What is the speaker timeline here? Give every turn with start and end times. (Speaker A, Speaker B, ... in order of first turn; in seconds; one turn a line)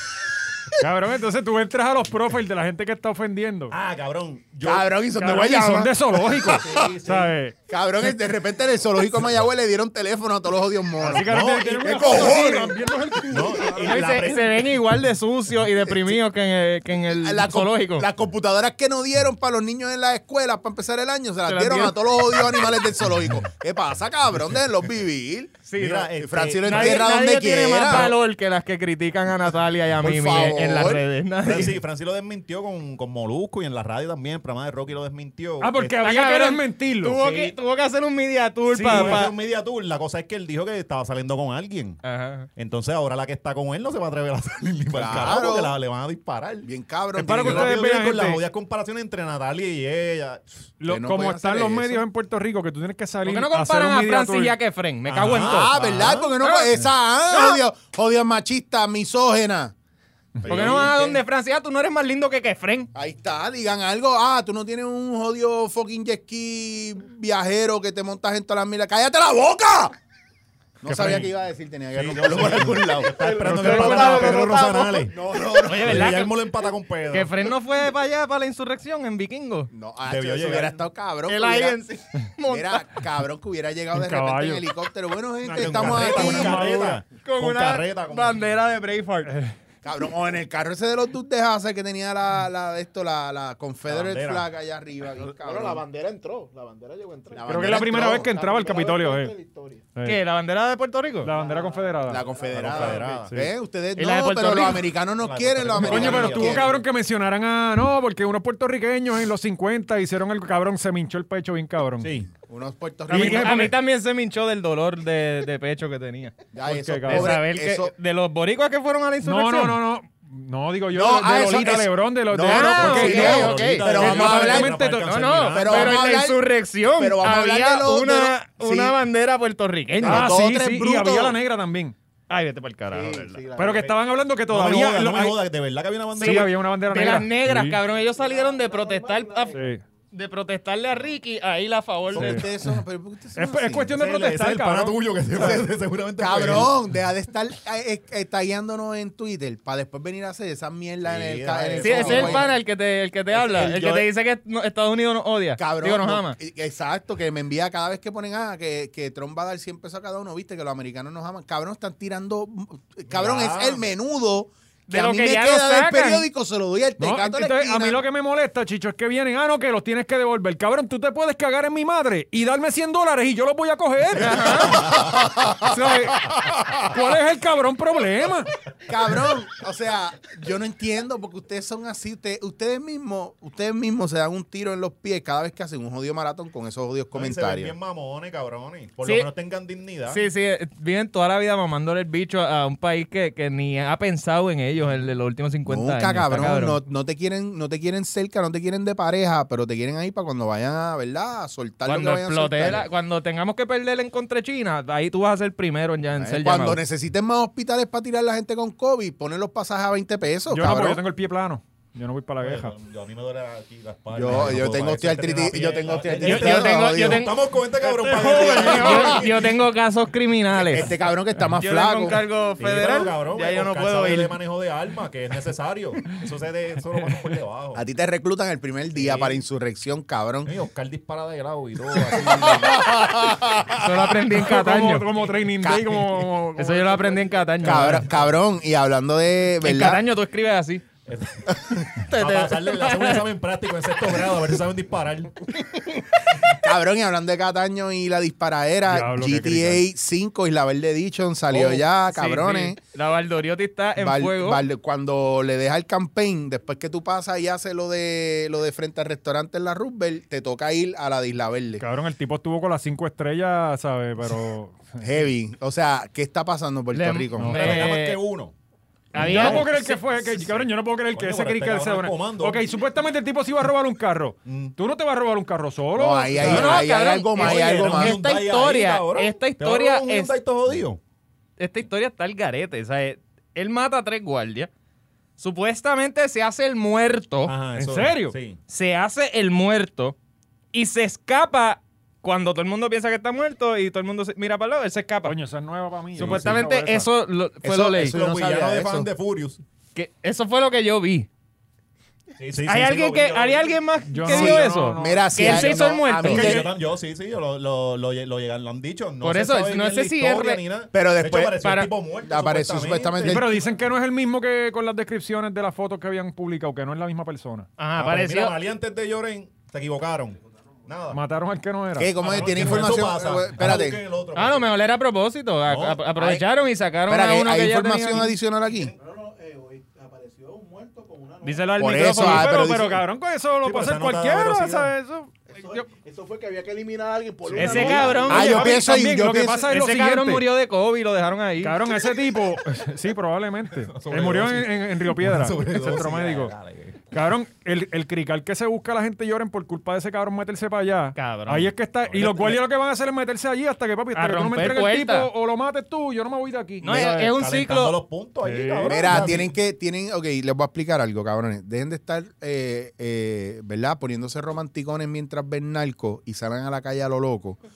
Speaker A: 0.8-3.8
Speaker B: 3.7-4.9
Speaker C: 4.6-7.0
Speaker A: 5.2-7.5
Speaker B: 6.4-7.3
Speaker C: 7.7-13.5
Speaker A: 11.0-14.0
Speaker B: 11.2-12.3
Speaker B: 13.3-14.7
Speaker D: 13.8-18.1
Speaker C: 15.9-16.2
Speaker C: 17.1-25.6
Speaker D: 21.5-22.0
Speaker D: 25.7-31.8
Speaker B: 25.8-27.1
Speaker C: 26.2-28.1
Speaker C: 30.0-31.0
Speaker B: 31.4-36.0
Speaker A: 35.6-37.2
Speaker D: 36.0-39.3
Speaker B: 37.1-37.6
Speaker A: 38.7-39.2
Speaker B: 38.9-42.0
Speaker D: 42.0-42.5
Speaker B: 42.6-46.7
Speaker C: 44.9-45.8
Speaker C: 46.6-47.8
Speaker A: 47.2-48.4
Speaker B: 47.4-50.7
Speaker A: 50.8-54.6
Speaker C: 50.9-52.0
Speaker D: 53.2-55.8
Speaker B: 55.1-56.3
Speaker C: 55.4-59.7
Speaker D: 56.4-56.7
Speaker D: 57.3-57.6
Speaker C: 60.4-61.2
Speaker B: 60.4-61.1
Speaker D: 60.5-62.9
Speaker C: 62.9-70.0
Speaker C: 70.8-74.4
Speaker A: 70.9-71.3
Speaker B: 71.9-75.2
Speaker E: 73.1-75.1
Speaker A: 73.5-74.4
Speaker C: 75.0-76.2
Speaker D: 75.6-76.4
Speaker B: 75.7-77.4
Speaker D: 77.1-79.7
Speaker C: 79.7-81.8
Speaker B: 80.1-80.8
Speaker D: 81.3-83.0
Speaker C: 82.5-86.9
Speaker A: 83.9-84.7
Speaker B: 85.4-88.4
Speaker A: 85.8-87.0
Speaker D: 87.2-89.3
Speaker A: 89.3-89.5
Speaker C: 89.8-95.8
Speaker B: 93.9-94.5
Speaker E: 95.2-99.8
Speaker C: 97.3-98.3
Speaker A: 97.5-99.3
Speaker D: 100.0-101.3
Speaker A: 101.2-102.2
Speaker E: 101.3-103.2
Speaker C: 102.1-106.7
Speaker B: 102.5-103.3
Speaker D: 104.0-104.8
Speaker B: 105.2-106.8
Speaker A: 105.8-112.1
Speaker B: 112.0-112.3
Speaker C: 112.4-113.7
Speaker A: 113.1-113.7
Speaker D: 113.1-116.3
Speaker C: 116.5-117.9
Speaker A: 116.7-117.4
Speaker D: 117.1-119.8
Speaker A: 119.2-125.2
Speaker C: 120.9-124.8
Speaker D: 122.5-124.4
Speaker B: 122.8-126.0
Speaker D: 124.9-130.5
Speaker C: 125.5-129.0
Speaker C: 130.0-131.4
Speaker A: 130.0-131.9
Speaker D: 132.3-133.4
Speaker C: 132.9-133.9
Speaker A: 133.6-135.4
Speaker B: 134.5-136.5
Speaker A: 136.2-137.8
Speaker D: 136.2-139.6
Speaker E: 138.0-139.7
Speaker A: 139.5-139.8
Speaker D: 140.1-142.5
Speaker C: 142.1-143.9
Speaker A: 142.2-142.4
Speaker A: 143.3-145.6
Speaker B: 143.9-146.8
Speaker C: 145.4-145.7
Speaker C: 146.2-152.5
Speaker B: 151.0-152.6
Speaker D: 151.8-156.4
Speaker C: 153.3-154.1
Speaker C: 155.6-168.0
Speaker B: 163.1-163.8
Speaker D: 164.9-166.3
Speaker A: 167.0-175.1
Speaker D: 174.2-174.8
Speaker B: 174.7-175.2
Speaker C: 174.8-175.7
Speaker A: 175.6-178.5
Speaker C: 176.3-176.8
Speaker C: 178.9-187.7
Speaker B: 187.1-190.2
Speaker D: 190.1-196.8
Speaker C: 195.7-202.9
Speaker D: 201.9-206.8
Speaker C: 206.2-211.0
Speaker A: 210.5-212.8
Speaker B: 212.4-219.7
Speaker C: 214.1-217.3
Speaker D: 216.2-217.4
Speaker A: 217.8-219.2
Speaker D: 218.0-220.9
Speaker C: 218.9-219.2
Speaker C: 220.7-222.2
Speaker D: 221.6-224.3
Speaker B: 222.6-227.8
Speaker C: 227.8-230.5
Speaker B: 229.0-229.4
Speaker B: 230.4-232.9
Speaker C: 232.1-234.1
Speaker D: 233.8-235.1
Speaker A: 234.3-237.3
Speaker C: 235.6-236.2
Speaker D: 236.6-238.1
Speaker C: 237.6-240.0
Speaker B: 237.7-238.2
Speaker D: 239.6-240.8
Speaker B: 241.1-245.5
Speaker D: 242.1-243.2
Speaker C: 246.5-252.8
Speaker A: 248.9-249.8
Speaker B: 251.5-251.8
Speaker A: 252.1-252.7
Speaker D: 252.8-254.6
Speaker C: 254.0-261.8
Speaker A: 261.8-265.1
Speaker C: 265.0-267.9
Speaker D: 266.9-268.2
Speaker A: 267.4-267.8
Speaker B: 267.5-268.5
Speaker D: 269.1-270.0
Speaker A: 269.1-276.8
Speaker C: 269.2-269.6
Speaker B: 269.2-272.6
Speaker B: 274.5-274.8
Speaker C: 275.9-278.2
Speaker B: 276.4-281.0
Speaker D: 276.4-280.3
Speaker D: 281.6-284.7
Speaker D: 285.4-287.6
Speaker B: 287.5-288.6
Speaker A: 287.8-288.4
Speaker D: 288.7-290.2
Speaker D: 290.7-295.4
Speaker A: 295.2-297.1
Speaker B: 296.2-296.6
Speaker D: 296.2-298.2
Speaker C: 297.6-299.1
Speaker B: 298.0-299.6
Speaker D: 299.9-301.3
Speaker B: 302.4-303.8
Speaker D: 302.6-306.6
Speaker A: 304.1-305.8
Speaker C: 304.3-306.8
Speaker B: 306.2-313.5
Speaker D: 309.2-310.6
Speaker C: 310.9-311.6
Speaker D: 311.6-311.9
Speaker C: 312.2-313.6
Speaker A: 313.2-317.7
Speaker D: 317.8-318.6
Speaker B: 318.0-321.2
Speaker A: 321.1-322.1
Speaker C: 322.0-324.0
Speaker B: 322.1-324.7
Speaker D: 324.4-328.4
Speaker B: 325.7-326.0
Speaker C: 326.2-326.4
Speaker C: 327.1-328.9
Speaker E: 328.9-331.8
Speaker D: 331.4-332.8
Speaker C: 331.8-333.0
Speaker A: 331.9-335.9
Speaker B: 333.6-334.9
Speaker E: 335.5-338.6
Speaker B: 337.5-338.6
Speaker D: 337.6-338.7
Speaker A: 337.6-340.5
Speaker C: 338.3-339.7
Speaker D: 339.7-341.8
Speaker A: 341.6-346.5
Speaker B: 343.9-347.0
Speaker A: 347.1-357.2
Speaker D: 351.1-351.7
Speaker B: 352.1-352.6
Speaker D: 354.1-355.3
Speaker D: 356.8-358.0
Speaker B: 356.9-359.5
Speaker A: 358.4-359.3
Speaker C: 358.9-367.6